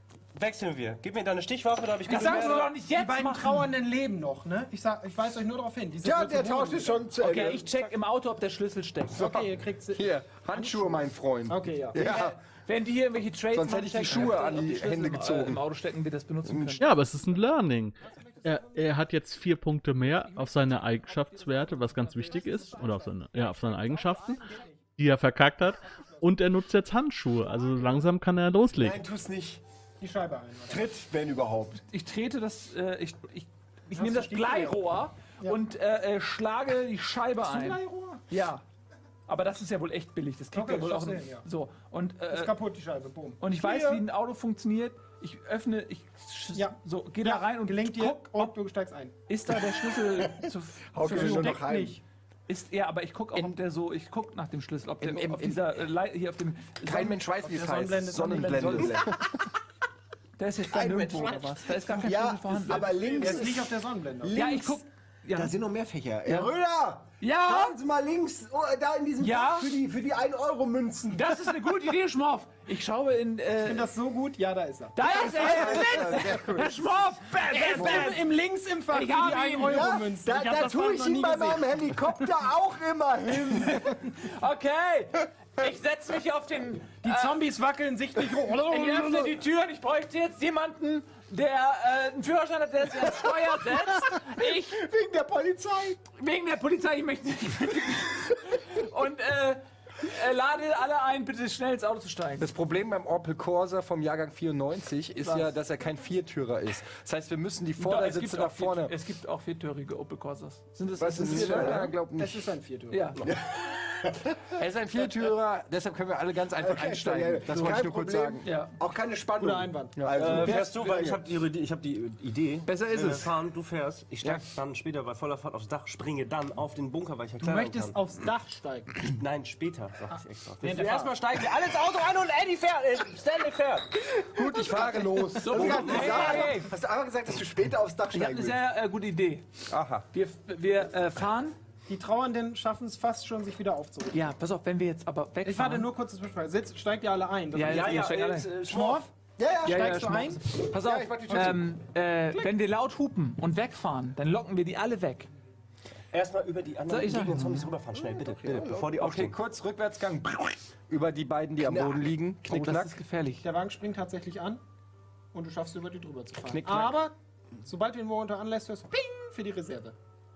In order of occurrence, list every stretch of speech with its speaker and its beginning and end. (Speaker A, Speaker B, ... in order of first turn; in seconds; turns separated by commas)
Speaker A: 0.3-2.7, Speaker B: 2.1-7.2, Speaker C: 2.1-3.7, Speaker D: 6.0-7.7, Speaker C: 7.2-9.3, Speaker B: 9.1-12.3, Speaker E: 9.2-12.4, Speaker C: 11.9-16.8, Speaker E: 13.5-15.6, Speaker E: 16.5-16.8, Speaker F: 16.8-29.0, Speaker B: 17.0-19.0, Speaker C: 20.3-22.9, Speaker B: 21.9-24.8, Speaker B: 25.9-26.2, Speaker B: 27.6-28.0, Speaker D: 28.7-29.6, Speaker B: 30.0-30.9, Speaker D: 30.7-31.8, Speaker C: 31.9-38.6, Speaker B: 33.9-34.8, Speaker B: 37.4-38.2, Speaker C: 39.3-42.5, Speaker B: 40.5-41.5, Speaker B: 42.3-44.0, Speaker C: 43.4-48.5, Speaker B: 46.5-49.1, Speaker C: 49.3-51.6, Speaker D: 50.1-52.0, Speaker B: 51.0-52.0, Speaker C: 52.5-57.2, Speaker E: 55.0-55.7, Speaker E: 56.8-59.2, Speaker B: 57.4-59.1, Speaker D: 58.7-59.1, Speaker C: 60.4-63.4, Speaker D: 60.7-64.8, Speaker B: 62.7-64.5, Speaker C: 64.3-65.5, Speaker D: 65.3-71.7, Speaker C: 66.3-66.5, Speaker C: 67.2-67.8, Speaker C: 69.2-69.8, Speaker C: 71.1-73.9, Speaker B: 73.6-76.4, Speaker C: 75.0-78.3, Speaker D: 75.1-76.8, Speaker B: 77.5-81.9, Speaker D: 77.7-78.1, Speaker C: 78.9-80.0, Speaker D: 79.6-84.0, Speaker C: 83.4-87.4, Speaker B: 87.0-89.4, Speaker C: 88.5-94.9, Speaker D: 94.1-96.0, Speaker C: 96.2-102.5, Speaker E: 102.4-109.0, Speaker C: 105.2-105.5, Speaker C: 107.8-111.9, Speaker E: 111.0-112.5, Speaker B: 111.2-113.3, Speaker D: 111.2-111.8, Speaker C: 112.9-113.2, Speaker D: 113.2-114.4, Speaker E: 114.5-118.5, Speaker D: 116.6-121.2, Speaker C: 118.4-118.7, Speaker B: 119.4-120.1, Speaker E: 120.0-120.5, Speaker A: 120.1-128.0, Speaker C: 120.4-120.8, Speaker E: 122.7-123.3, Speaker B: 127.4-129.1, Speaker A: 129.1-133.9, Speaker B: 130.6-131.2, Speaker E: 134.3-136.0, Speaker D: 134.6-138.6, Speaker C: 135.3-136.7, Speaker A: 135.5-136.5, Speaker C: 138.1-139.4, Speaker E: 139.7-140.1, Speaker C: 140.1-141.6, Speaker B: 141.9-144.3, Speaker C: 144.1-145.9, Speaker B: 145.4-149.1, Speaker C: 147.5-148.6, Speaker A: 147.7-149.0, Speaker D: 149.4-150.0, Speaker B: 149.6-150.6, Speaker C: 149.6-155.3, Speaker D: 150.7-151.7, Speaker A: 156.1-159.4, Speaker C: 156.9-157.7, Speaker E: 158.0-163.0, Speaker D: 158.5-158.9, Speaker D: 161.6-162.1, Speaker C: 162.5-163.4, Speaker B: 163.4-164.6, Speaker B: 165.3-169.9, Speaker E: 166.5-166.9